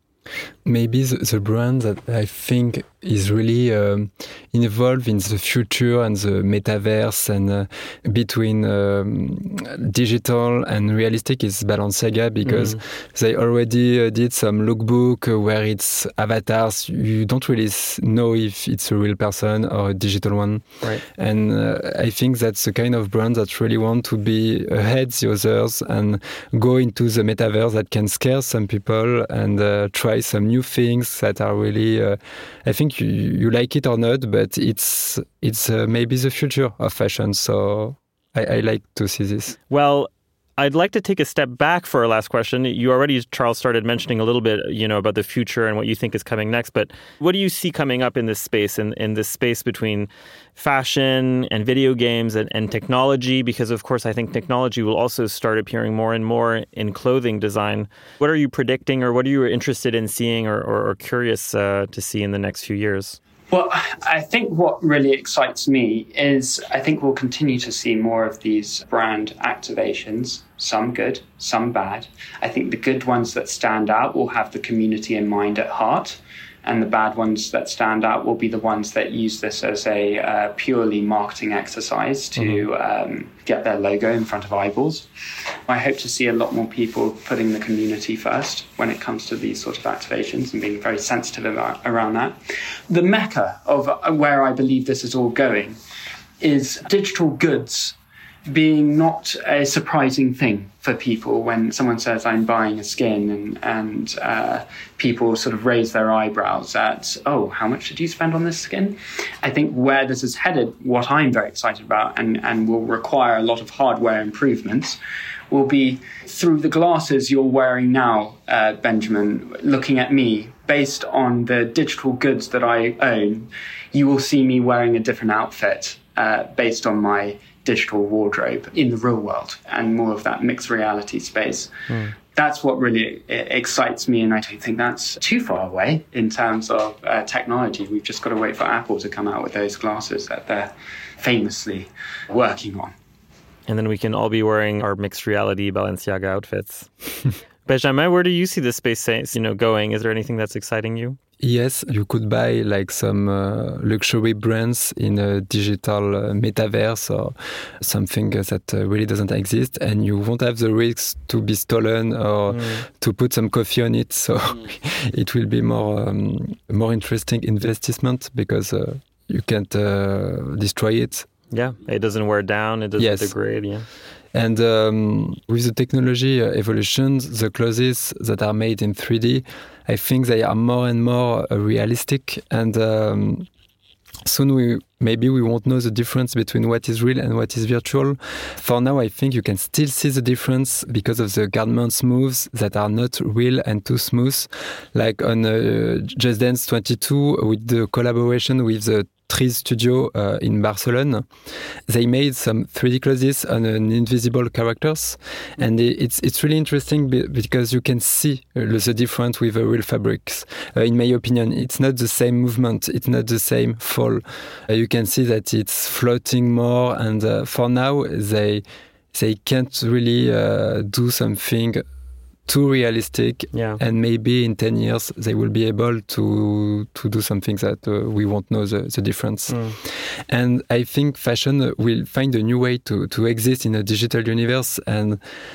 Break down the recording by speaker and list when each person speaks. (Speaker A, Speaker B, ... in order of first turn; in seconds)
Speaker A: 0.7-39.6, 151.4-171.3, 173.0-173.3, 174.3-183.5, 184.2-201.3, 201.9-221.8, 222.5-235.2
Speaker B: 12.5-12.8, 39.7-63.2, 82.4-82.7, 131.9-132.2, 143.7-151.2, 162.5-162.8, 171.5-173.9, 223.5-223.8, 229.5-229.8
Speaker C: 63.5-85.1, 85.7-92.4, 92.9-95.8, 96.4-98.0, 98.5-115.0, 115.5-131.7, 132.3-142.9